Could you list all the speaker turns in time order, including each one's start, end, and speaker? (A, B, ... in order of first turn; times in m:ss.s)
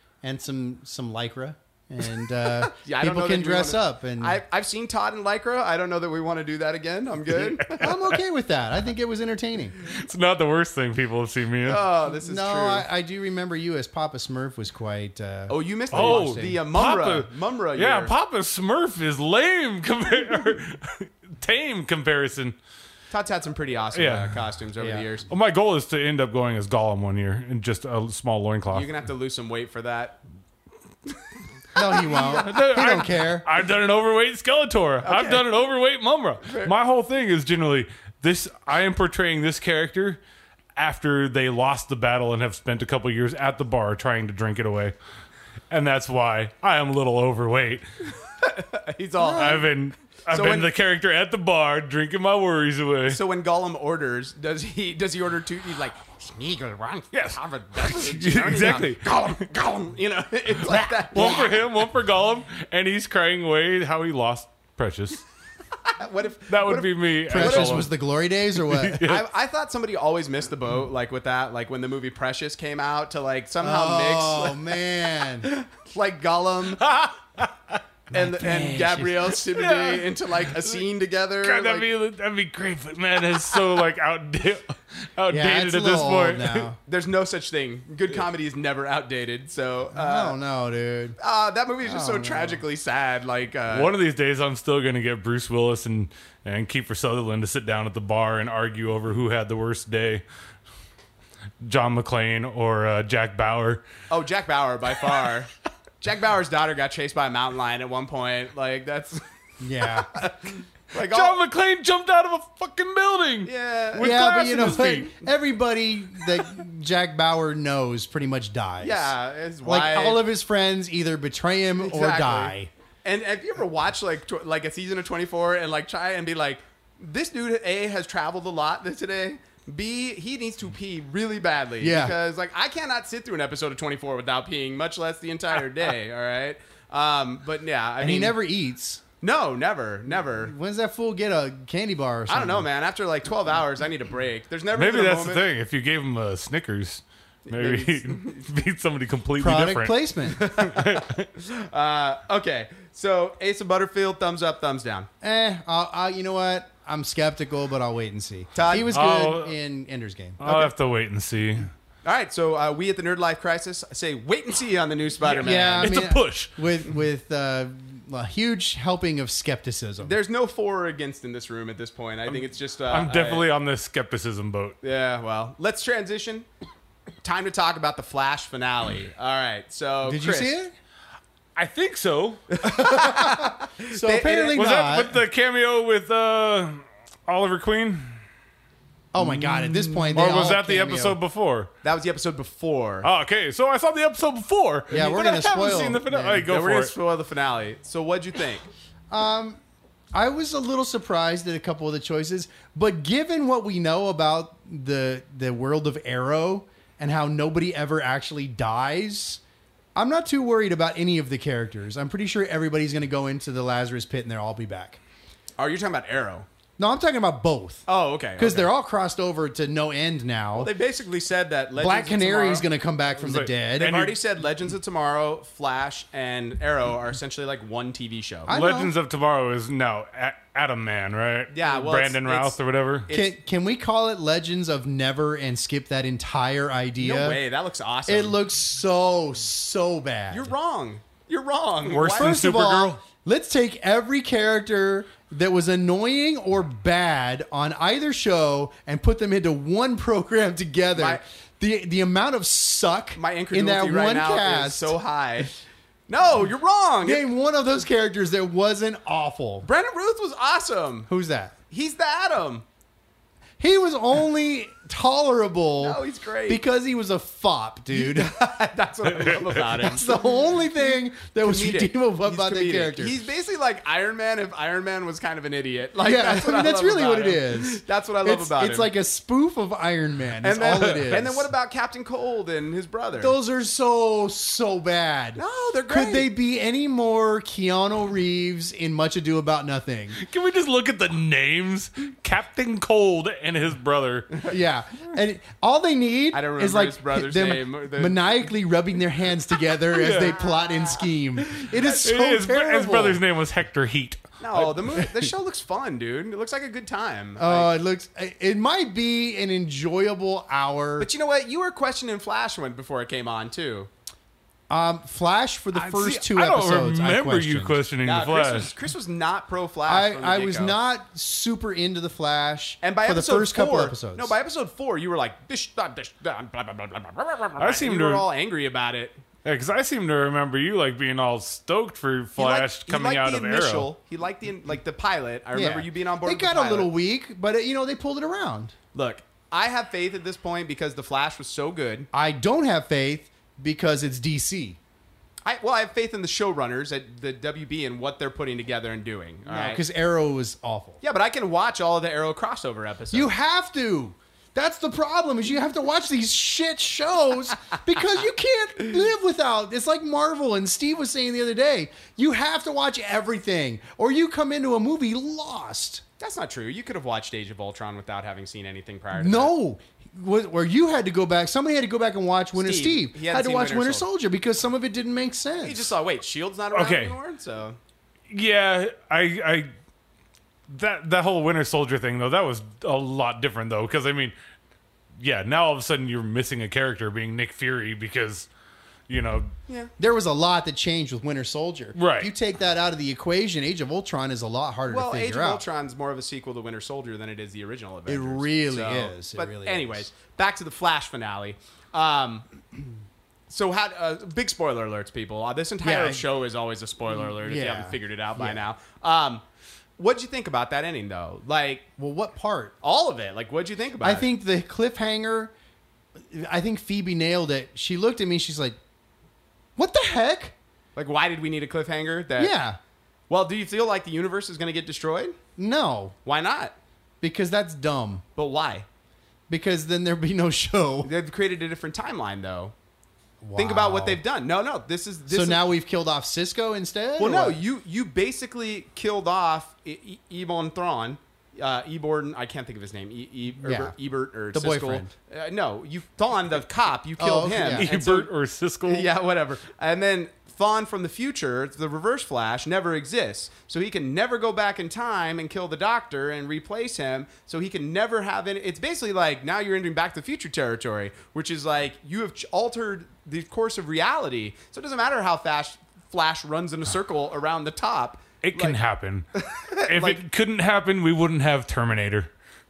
0:00.2-0:04.4 A
0:02.7-0:07.8 B
0:07.6-0:08.1 C
0:07.8-0:09.8 A
0:09.8-0:11.8 C
0:11.6-0:12.9 B
0:12.1-0:16.6 A
0:15.5-0:18.1 B
0:15.9-0:22.6 C
0:23.1-0:25.3 B
0:23.9-0:24.4 C
0:24.8-0:25.0 A
0:25.3-0:28.9 C
0:28.7-0:30.2 B
0:31.8-0:33.5 A
0:32.0-0:40.2 C
0:32.1-0:32.4 B
0:35.0-0:35.4 B
0:36.5-0:36.7 B
0:40.8-0:44.9 C
0:45.7-0:47.8 C
0:48.4-0:49.7 B
0:49.2-0:49.7 A
0:49.4-0:53.2 C
0:50.3-0:50.7 B
0:53.1-1:01.6 B
0:57.1-0:59.3 C
1:00.7-1:05.2 C
1:05.9-1:07.8 B
1:06.5-1:07.9 C
1:07.3-1:09.0 A
1:08.7-1:09.3 C
1:09.0-1:14.6 B
1:13.6-1:15.5 A
1:15.4-1:16.8 B
1:16.8-1:17.5 C
1:18.1-1:21.9 B
1:18.2-1:19.1 A
1:18.4-1:20.8 C
1:21.4-1:26.7 C
1:25.3-1:26.8 A
1:26.9-1:30.4 B
1:29.9-1:31.2 A
1:31.2-1:33.9 B
1:31.8-1:32.6 A
1:33.7-1:40.2 C
1:41.6-1:43.8 C
1:44.1-1:45.5 B
1:46.0-1:49.2 B
1:49.6-1:50.1 A
1:49.8-1:51.4 B
1:51.0-1:55.1 C
1:53.4-1:55.0 B
1:54.0-2:02.7 A
1:58.8-2:00.2 B
2:01.8-2:18.4 B
2:11.8-2:12.2 A
2:18.0-2:19.0 A
2:19.2-2:20.5 B
2:20.4-2:22.7 A
2:22.3-2:25.4 B
2:24.8-2:31.3 C
2:27.5-2:28.4 B
2:29.4-2:30.4 A
2:30.4-2:35.1 B
2:35.2-2:40.4 A
2:38.6-2:38.9 B
2:38.9-2:39.6 C
2:40.4-2:41.7 C
2:40.4-2:40.7 B
2:42.0-2:45.9 B
2:45.3-2:50.2 A
2:45.8-2:46.5 C
2:50.0-2:53.5 B
2:52.3-2:54.8 C
2:54.8-2:56.5 B
2:57.2-3:00.5 B
3:00.0-3:00.7 A
3:01.6-3:02.5 C
3:02.5-3:04.6 B
3:02.7-3:05.2 A
3:04.6-3:08.2 C
3:09.1-3:11.2 A
3:09.3-3:10.3 B
3:10.1-3:11.7 C
3:11.8-3:13.1 B
3:13.0-3:16.9 C
3:14.9-3:16.5 A
3:16.4-3:18.7 B
3:19.1-3:19.6 A
3:20.1-3:29.4 A
3:30.0-3:35.0 A
3:35.6-3:36.5 B
3:36.8-3:40.7 A
3:37.9-3:38.7 B
3:40.6-3:42.7 B
3:41.8-3:44.1 A
3:43.2-3:44.2 C
3:43.8-3:48.5 B
3:48.5-3:48.9 A
3:48.5-3:53.1 C
3:51.5-3:53.3 B
3:53.1-3:57.4 A
3:57.0-3:58.4 B
3:58.1-4:00.5 A
4:00.3-4:02.4 B
4:01.9-4:03.0 C
4:02.1-4:15.0 A
4:11.0-4:11.2 B
4:13.2-4:15.5 B
4:16.1-4:17.2 B
4:17.0-4:19.7 A
4:19.6-4:21.1 B
4:21.1-4:21.6 A
4:21.7-4:22.6 B
4:23.6-4:28.6 A
4:25.8-4:26.6 B
4:27.9-4:30.2 B
4:29.2-4:29.5 C
4:29.6-4:33.2 A
4:31.4-4:38.9 B
4:36.0-4:41.5 A
4:40.4-4:43.4 B
4:43.2-4:50.2 A
4:45.4-4:46.3 B
4:50.2-4:54.3 C
4:54.4-5:03.2 A
4:56.3-4:58.2 B
4:59.9-5:00.4 C
5:01.8-5:05.0 C
5:04.4-5:07.7 B
5:07.4-5:11.1 A
5:11.0-5:13.9 B
5:14.7-5:17.8 A
5:15.7-5:18.7 C
5:18.0-5:20.8 B
5:19.9-5:24.3 A
5:22.8-5:29.2 B
5:27.6-5:28.3 C
5:29.4-5:33.9 C
5:32.4-5:36.9 B
5:35.5-5:38.7 A
5:38.9-5:42.1 B
5:42.1-5:44.8 A
5:45.5-5:49.8 B
5:49.5-5:51.0 A
5:51.0-5:53.3 B
5:53.1-6:06.0 A
6:06.2-6:09.5 B
6:09.1-6:15.9 A
6:12.6-6:14.1 B
6:15.6-6:17.8 B
6:16.7-6:17.2 C
6:18.3-6:19.7 C
6:20.7-6:24.3 C
6:25.2-6:28.5 C
6:29.1-6:29.5 C
6:30.0-6:35.6 A
6:32.0-6:32.3 C
6:34.9-6:42.4 B
6:38.1-6:40.0 A
6:43.5-6:49.4 B
6:45.8-6:46.2 A
6:47.1-6:48.6 A
6:50.0-6:51.8 B
6:52.0-6:52.7 A
6:52.8-6:54.3 B
6:54.0-6:55.5 A
6:56.2-6:58.8 A
6:59.8-7:00.6 A
7:01.0-7:02.6 B
7:02.4-7:02.8 A
7:03.3-7:05.4 B
7:05.6-7:06.2 A
7:06.2-7:06.8 B
7:07.2-7:08.2 A
7:08.4-7:08.9 B
7:09.5-7:11.1 A
7:11.0-7:12.7 B
7:13.4-7:14.2 A
7:13.6-7:15.6 B
7:15.3-7:17.6 A
7:17.2-7:28.3 B
7:23.6-7:24.0 A
7:24.5-7:25.1 A
7:27.2-7:27.9 A
7:27.8-7:29.1 C
7:28.9-7:48.8 B
7:48.4-7:49.3 C
7:49.4-7:50.2 B
7:49.9-7:52.3 C